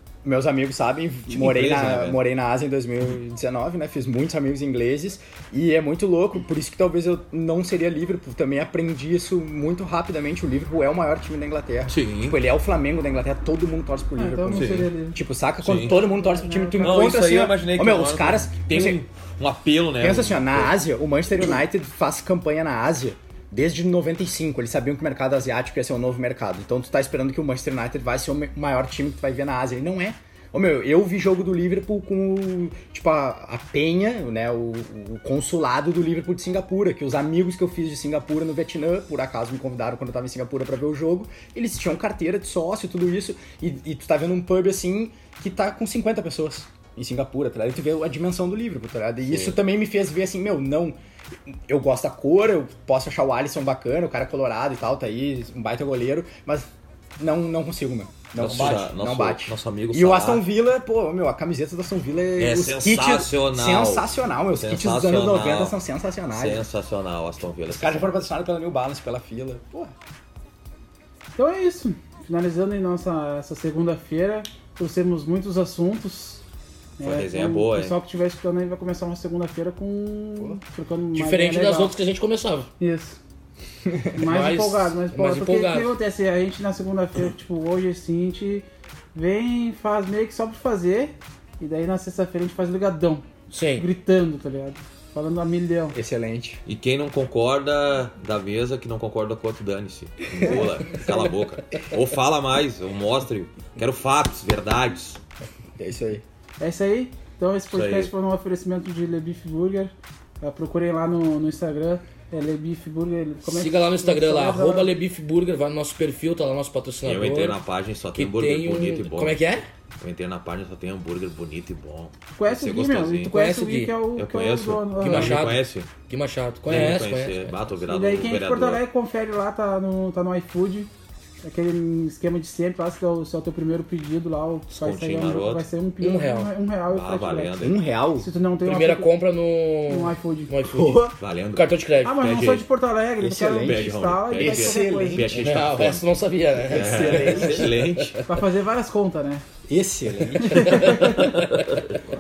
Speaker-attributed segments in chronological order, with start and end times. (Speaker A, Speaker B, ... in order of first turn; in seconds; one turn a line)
Speaker A: 0.2-19.0
Speaker B: 1.3-2.2
Speaker B: 11.9-12.4
Speaker C: 14.2-15.2
Speaker B: 14.5-14.9
Speaker B: 15.6-16.0
Speaker C: 15.7-17.2
Speaker B: 16.8-20.8
Speaker A: 20.0-51.0
Speaker B: 49.3-49.6
Speaker A: 51.5-66.6
Speaker B: 58.4-60.5
Speaker B: 62.4-65.8
Speaker B: 66.3-68.2
Speaker A: 67.7-69.9
Speaker C: 71.4-76.4
Speaker C: 77.0-81.9
Speaker B: 77.0-78.0
Speaker D: 81.2-82.7
Speaker C: 82.8-83.2
Speaker D: 84.2-85.9
Speaker C: 84.2-96.0
Speaker D: 93.5-93.9
Speaker A: 95.9-96.6
Speaker B: 96.7-105.2
Speaker A: 100.4-100.7
Speaker A: 105.8-106.2
Speaker C: 106.6-114.9
Speaker B: 107.7-108.1
Speaker D: 113.4-117.6
Speaker B: 117.0-119.5
Speaker D: 118.1-119.7
Speaker B: 120.0-123.3
Speaker C: 122.3-125.5
Speaker D: 123.3-124.0
Speaker B: 124.2-125.9
Speaker D: 125.0-127.6
Speaker B: 126.7-128.8
Speaker C: 127.9-130.9
Speaker C: 131.4-139.1
Speaker B: 134.7-135.7
Speaker D: 136.0-136.5
Speaker B: 136.9-137.8
Speaker A: 137.6-138.3
Speaker D: 138.6-142.2
Speaker C: 139.9-140.6
Speaker A: 140.7-141.1
Speaker B: 141.2-142.7
Speaker C: 142.0-145.3
Speaker A: 143.2-145.8
Speaker B: 143.6-148.2
Speaker D: 145.3-148.2
Speaker A: 146.6-147.8
Speaker C: 148.3-149.4
Speaker A: 149.7-151.0
Speaker C: 150.4-151.4
Speaker D: 150.5-151.0
Speaker B: 151.0-152.0